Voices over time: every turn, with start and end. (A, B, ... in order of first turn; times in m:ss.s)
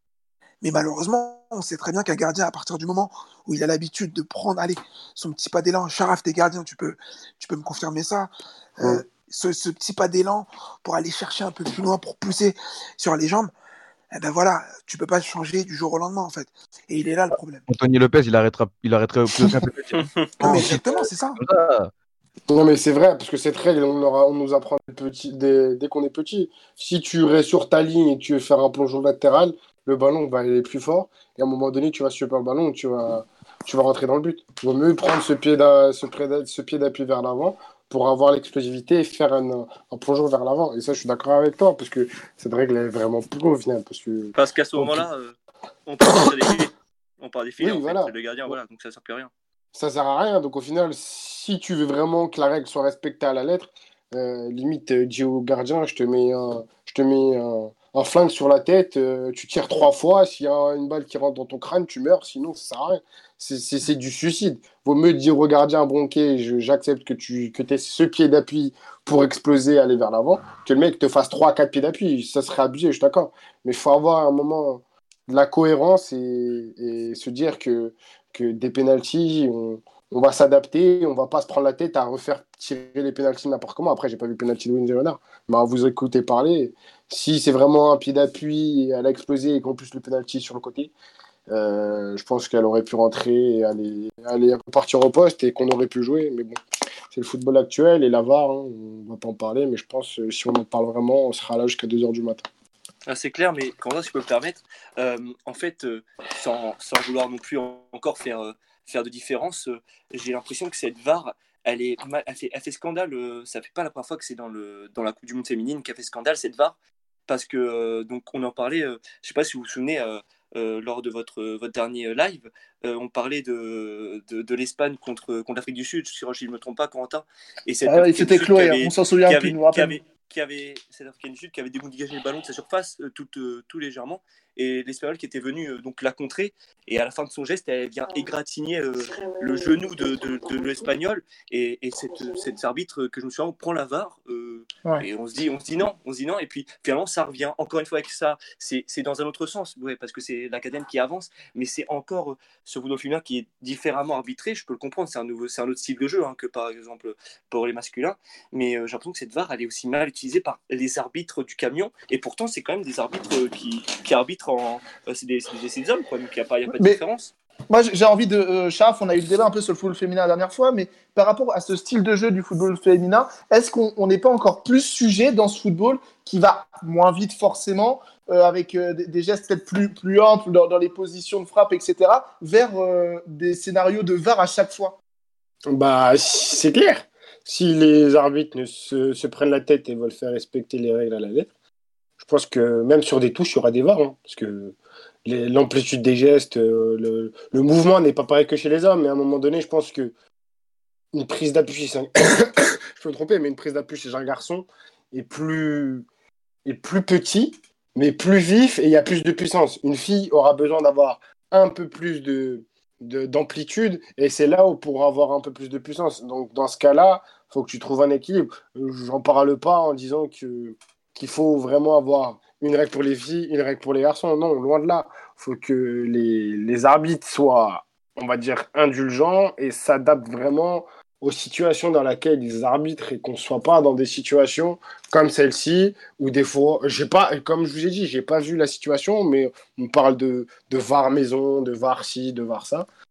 0:00.6-0:13.5 A
0:14.1-0:17.6 A
0:17.7-0:20.8 B
0:19.9-0:20.7 C
0:20.4-0:21.4 A
0:21.4-0:21.9 B
0:22.5-0:45.0 D
0:44.4-0:49.3 C
0:47.6-0:48.1 D
0:49.7-1:30.9 D
1:31.5-1:36.6 D
1:37.1-1:42.4 D
1:43.1-1:56.8 C
1:57.3-2:47.3 C
2:07.9-2:10.0 E
2:47.7-3:05.0 E
3:05.7-3:11.5 D
3:12.2-3:20.1 D
3:21.1-3:26.1 D
3:26.6-4:02.9 D